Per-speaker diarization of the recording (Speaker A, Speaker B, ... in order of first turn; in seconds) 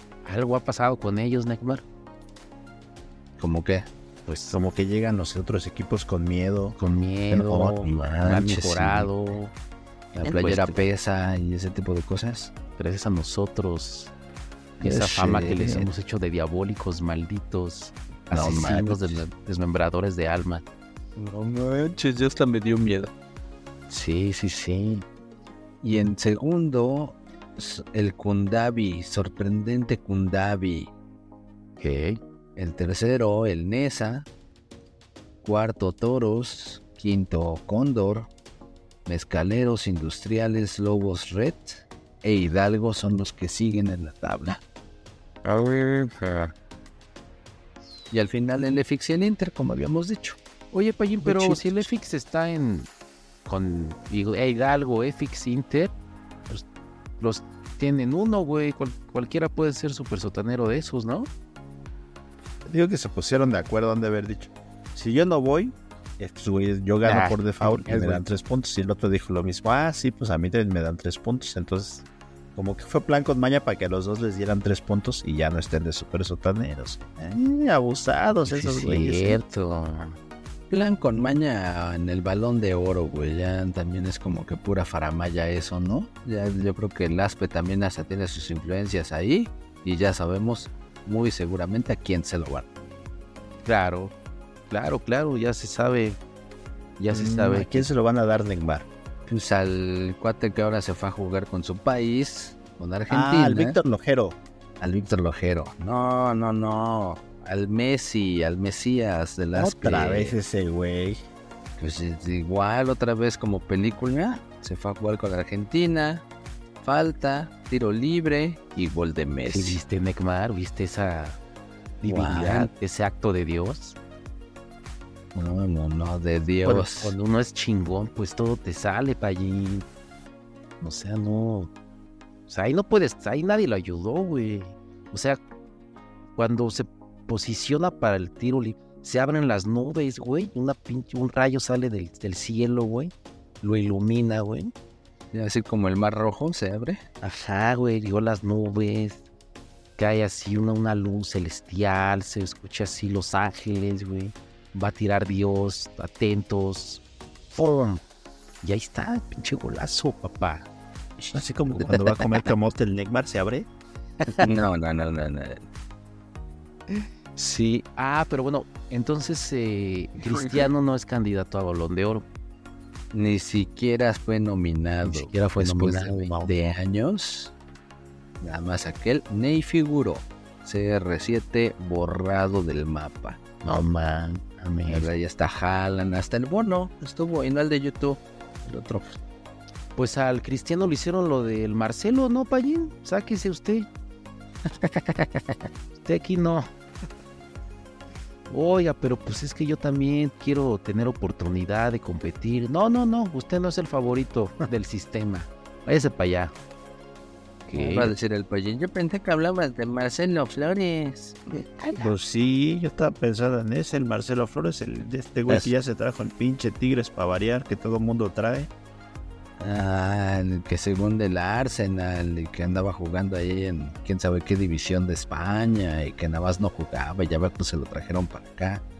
Speaker A: 0.2-1.8, 4.2-4.5, 6.8-9.5, 10.1-10.8, 12.8-14.1, 14.8-20.6, 23.9-25.1, 31.8-32.2, 45.4-46.5, 50.7-52.9, 53.5-55.9, 57.2-61.3, 67.0-68.2, 78.5-80.2, 93.6-94.1, 94.7-96.2, 97.0-97.9, 119.5-121.4, 122.0-124.0, 126.6-129.8, 130.8-131.7, 132.5-135.4, 136.3-144.7, 147.2-149.2, 150.0-158.0, 158.6-160.7, 167.3-172.2, 175.0-176.5, 183.6-185.1, 189.9-193.9, 196.0-196.7, 198.5-206.5, 207.7-208.1
Speaker B: 3.4-3.9, 8.0-9.1, 10.2-12.5, 14.8-15.9, 18.3-19.2, 21.1-23.1, 25.8-30.9, 32.5-34.2, 35.4-38.3, 39.0-44.6, 48.1-50.4, 51.2-51.9, 80.7-92.7, 99.3-103.8, 104.8-110.4, 111.8-116.2, 116.8-119.8, 122.0-122.7, 125.3-127.2, 145.3-147.0, 161.8-162.4, 164.3-165.6, 170.2-170.7, 173.1-177.5, 178.4-183.4, 184.9-189.2, 194.8-195.6, 207.7-212.0, 219.6-228.8
Speaker C: 4.5-6.8, 7.3-8.2, 62.6-72.0, 72.5-79.4, 97.1-98.9, 103.1-104.4, 109.5-111.2, 161.3-163.7, 211.9-218.7